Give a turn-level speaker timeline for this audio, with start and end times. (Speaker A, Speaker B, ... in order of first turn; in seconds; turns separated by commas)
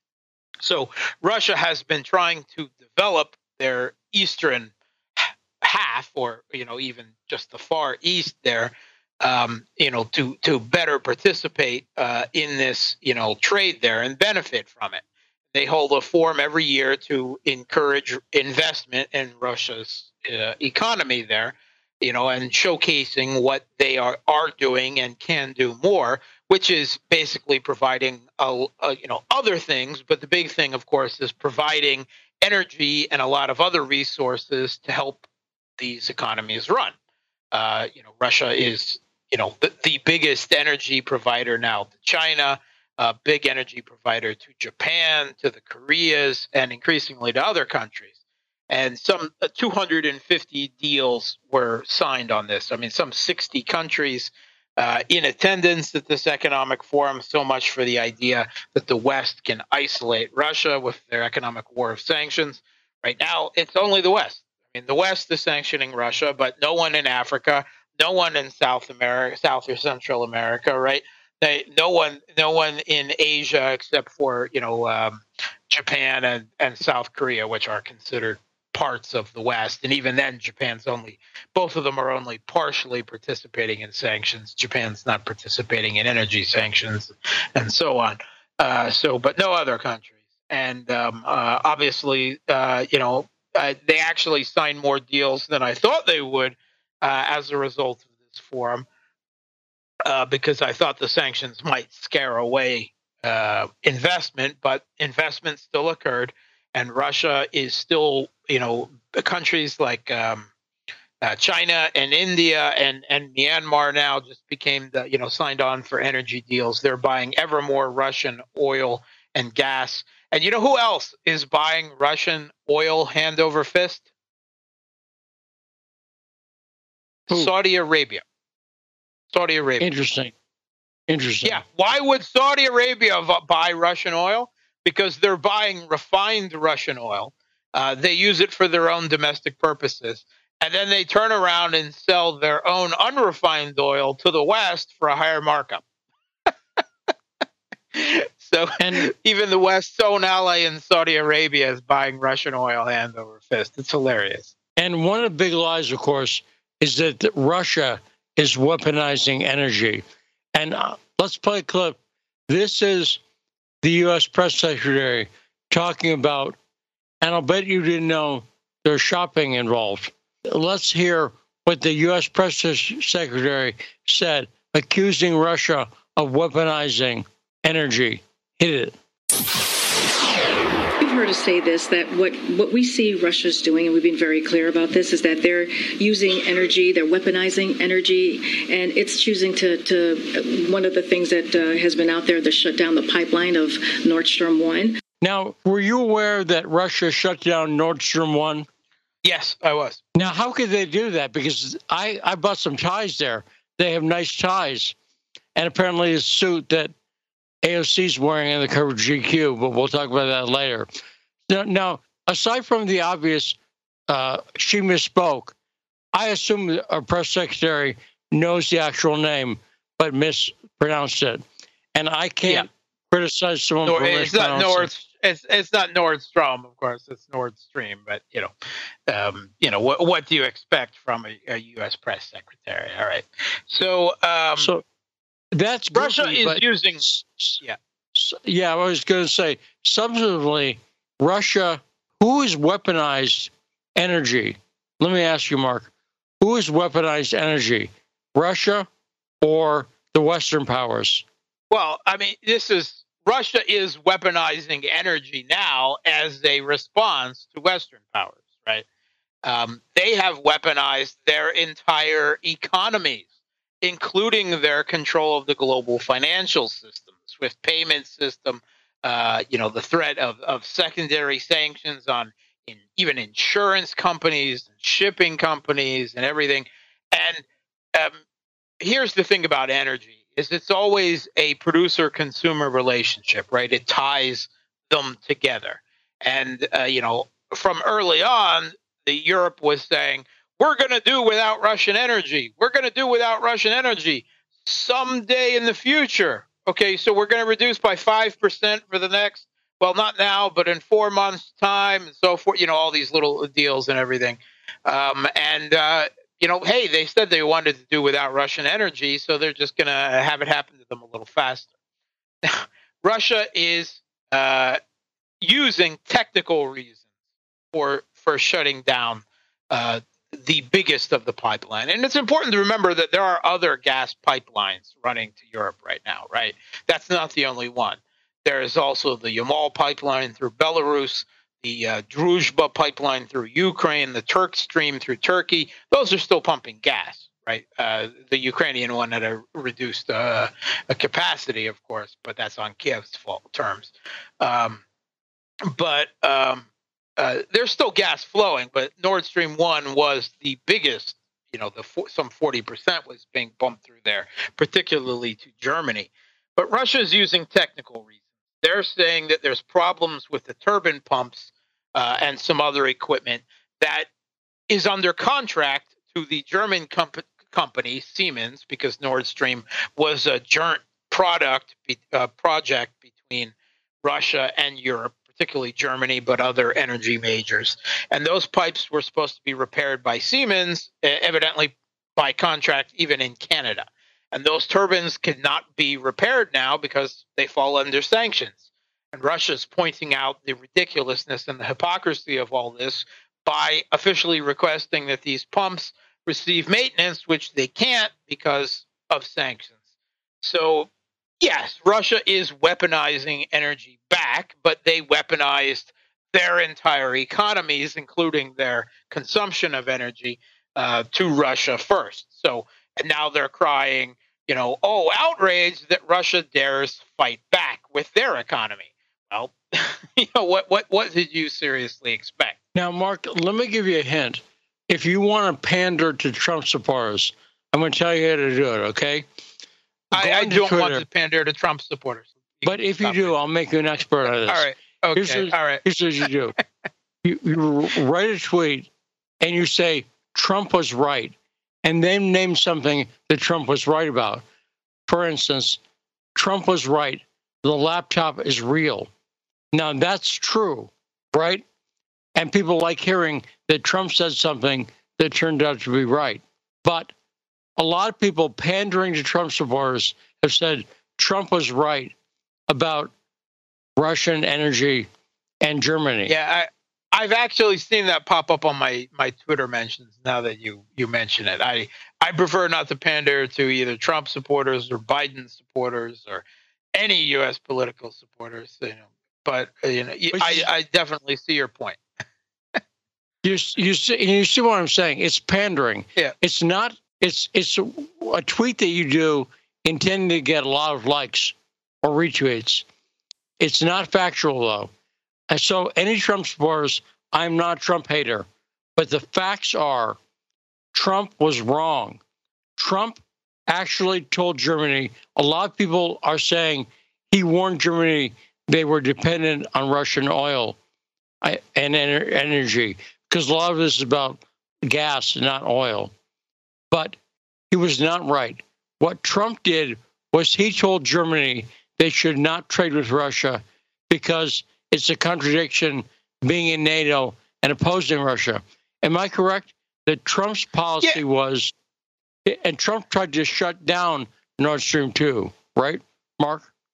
Speaker A: 0.6-35.2, Speaker A: 35.8-36.9, Speaker A: 37.5-48.1, Speaker A: 48.7-98.8, Speaker A: 100.0-110.5, Speaker A: 111.2-124.1, Speaker A: 127.3-128.2, Speaker A: 129.3-129.9, Speaker B: 129.8-130.3, Speaker B: 131.1-131.6, Speaker A: 131.4-145.8, Speaker A: 147.9-154.5, Speaker B: 148.8-149.1, Speaker B: 154.8-160.0, Speaker B: 160.5-163.2, Speaker B: 163.8-166.6, Speaker B: 167.2-178.9, Speaker C: 181.0-194.9, Speaker B: 195.2-198.7, Speaker A: 199.2-200.0, Speaker B: 200.2-204.9, Speaker B: 205.6-206.9, Speaker B: 207.6-210.9, Speaker B: 211.5-213.6, Speaker B: 214.1-215.5, Speaker B: 216.1-221.4, Speaker B: 221.9-224.9, Speaker A: 223.8-228.5, Speaker A: 229.1-234.7, Speaker B: 234.6-234.8, Speaker B: 235.5-237.6, Speaker A: 235.9-237.0, Speaker B: 238.1-248.9, Speaker B: 249.4-251.2, Speaker A: 251.7-258.8, Speaker A: 259.4-263.3, Speaker A: 263.8-278.1, Speaker A: 278.8-311.7, Speaker A: 312.4-314.8, Speaker A: 315.4-317.0, Speaker A: 317.7-344.8, Speaker A: 345.7-364.1, Speaker A: 364.7-373.5, Speaker A: 374.0-399.8, Speaker A: 400.4-400.9, Speaker A: 401.4-422.6, Speaker B: 422.7-429.2, Speaker A: 430.1-433.3, Speaker B: 430.1-431.0, Speaker B: 432.6-436.6, Speaker A: 434.5-435.8, Speaker B: 437.2-438.9, Speaker B: 439.4-444.4, Speaker B: 445.1-445.8, Speaker B: 446.4-449.1, Speaker B: 449.7-451.6, Speaker B: 452.4-457.1, Speaker B: 457.8-462.1, Speaker B: 462.7-463.1, Speaker B: 464.0-465.1, Speaker B: 465.6-466.3, Speaker A: 466.3-482.0, Speaker B: 480.3-480.7, Speaker B: 483.4-492.8, Speaker B: 493.6-494.9, Speaker B: 495.5-500.2, Speaker B: 500.9-502.2, Speaker B: 502.8-510.8, Speaker B: 511.4-516.1, Speaker B: 516.9-517.2, Speaker B: 517.7-531.7, Speaker B: 532.5-536.7